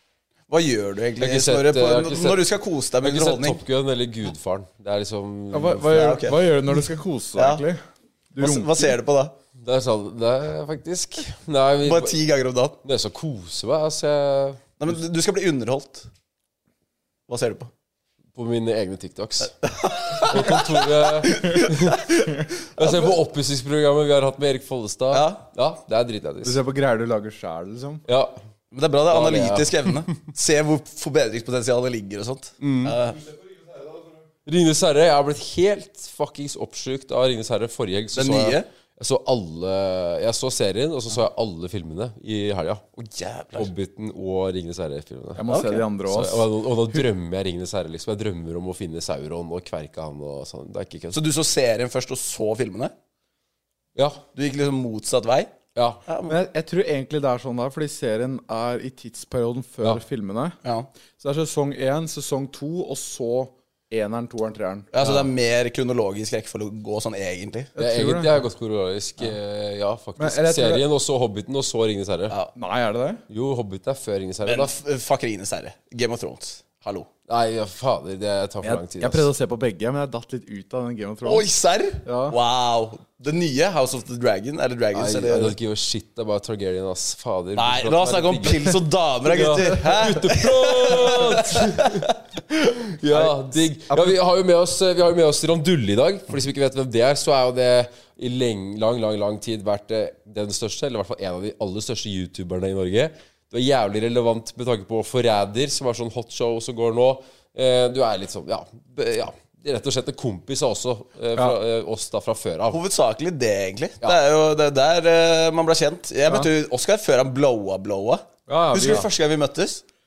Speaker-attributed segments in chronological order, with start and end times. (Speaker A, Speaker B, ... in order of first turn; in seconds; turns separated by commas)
Speaker A: 0.5-3.6, Speaker B: 1.2-2.5, Speaker B: 3.0-6.0, Speaker C: 5.5-7.8, Speaker A: 5.9-6.5, Speaker A: 7.4-7.6, Speaker C: 8.3-8.9, Speaker A: 8.4-9.3, Speaker B: 9.6-12.2, Speaker A: 11.8-12.8, Speaker B: 12.8-14.6, Speaker A: 14.8-16.1, Speaker A: 17.3-17.7, Speaker B: 18.4-19.6, Speaker A: 19.6-22.2, Speaker B: 20.1-22.1, Speaker B: 22.8-26.6, Speaker A: 22.8-23.1, Speaker A: 25.1-25.4, Speaker C: 26.4-28.0, Speaker B: 28.1-28.4, Speaker A: 28.7-33.2, Speaker B: 29.1-30.0, Speaker B: 32.6-33.0, Speaker B: 34.5-42.8, Speaker A: 38.1-38.7, Speaker A: 43.0-43.7, Speaker B: 43.5-45.5, Speaker C: 45.4-47.0, Speaker A: 45.5-45.8, Speaker B: 46.0-51.2, Speaker A: 51.1-52.9, Speaker B: 54.0-54.2, Speaker A: 54.4-55.5, Speaker B: 55.8-56.0, Speaker A: 56.1-56.4, Speaker C: 56.3-60.6, Speaker A: 60.6-60.9, Speaker C: 61.2-64.9, Speaker A: 64.9-67.7, Speaker C: 67.8-68.4, Speaker B: 67.8-72.3, Speaker C: 70.2-70.9, Speaker C: 72.5-73.2, Speaker B: 73.3-74.7, Speaker A: 74.5-77.1, Speaker B: 77.3-79.3, Speaker C: 78.6-81.5, Speaker A: 81.2-85.5, Speaker C: 82.0-82.3, Speaker B: 84.9-112.8, Speaker A: 87.6-92.1, Speaker C: 93.1-94.2, Speaker A: 112.7-119.8, Speaker C: 118.5-119.1